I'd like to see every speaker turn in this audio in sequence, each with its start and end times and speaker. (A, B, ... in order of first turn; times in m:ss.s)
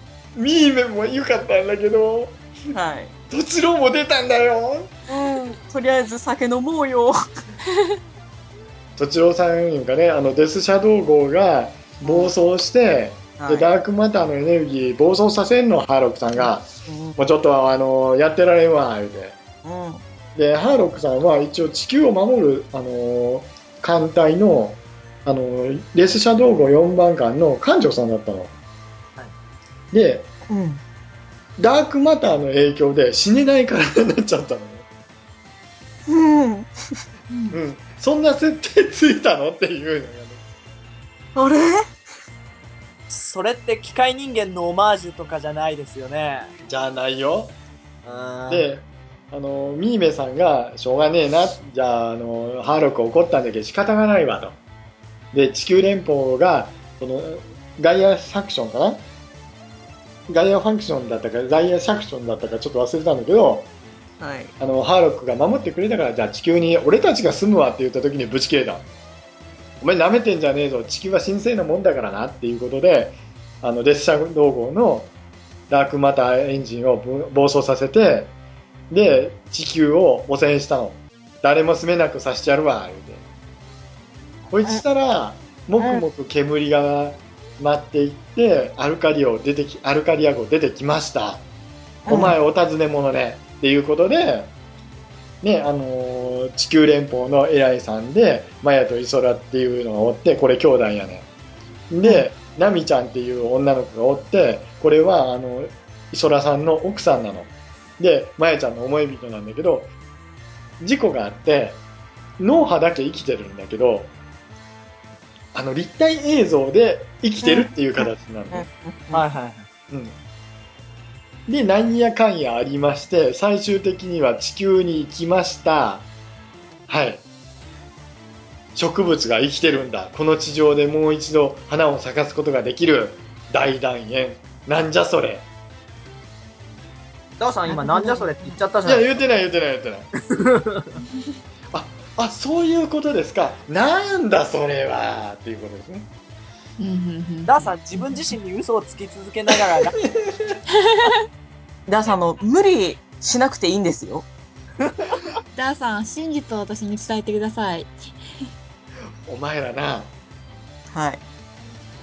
0:00.4-0:02.4 A
0:02.7-0:03.1 B
0:03.3-0:04.9 A
0:05.1-0:07.2 B
0:09.0-0:19.4 A
0:12.0-0:12.3 B
0:13.4-0:13.7 B
0:16.4-0:17.2 B
0:19.6-0:20.0 B
0:20.4-0:28.5 A
0:29.9-0:30.3 A
0:30.5-0:30.8 B
0:31.6-0:34.8 A
0:36.1-0:37.0 B
0:37.3-0:37.6 C
0:37.5-0:40.4 A
0:41.4-0:41.9 B
0:43.1-0:46.5 D
0:46.6-0:47.6 A
0:48.0-0:48.7 D
0:48.5-0:54.6 A
0:55.3-0:59.0 A
1:00.3-1:03.7 A
1:04.2-1:04.5 B
1:04.6-1:08.8 A
1:09.8-1:15.1 A
1:15.7-1:18.3 A
1:18.9-1:23.2 A
1:24.5-1:31.4 A
1:25.8-1:26.0 B
1:32.1-1:32.4 B
1:32.1-1:34.5 A
1:35.4-1:41.3 A
1:41.9-1:49.9 A
1:50.8-1:51.8 A
1:52.4-1:54.1 A
1:55.5-1:58.7 A
1:57.4-1:59.2 B
1:59.1-1:59.7 D
1:59.9-2:00.2 A
2:01.5-2:06.1 A
2:06.9-2:07.2 A
2:08.8-2:15.5 A
2:17.4-2:19.2 D
2:17.7-2:18.6 C
2:18.8-2:20.1 A
2:20.3-2:21.0 D
2:21.7-2:26.1 A
2:26.8-2:28.3 C
2:27.5-2:30.0 D
2:31.9-2:34.3 B
2:34.9-2:35.2 D
2:35.6-2:37.9 C
2:39.3-2:40.1 A
2:40.9-2:41.2 B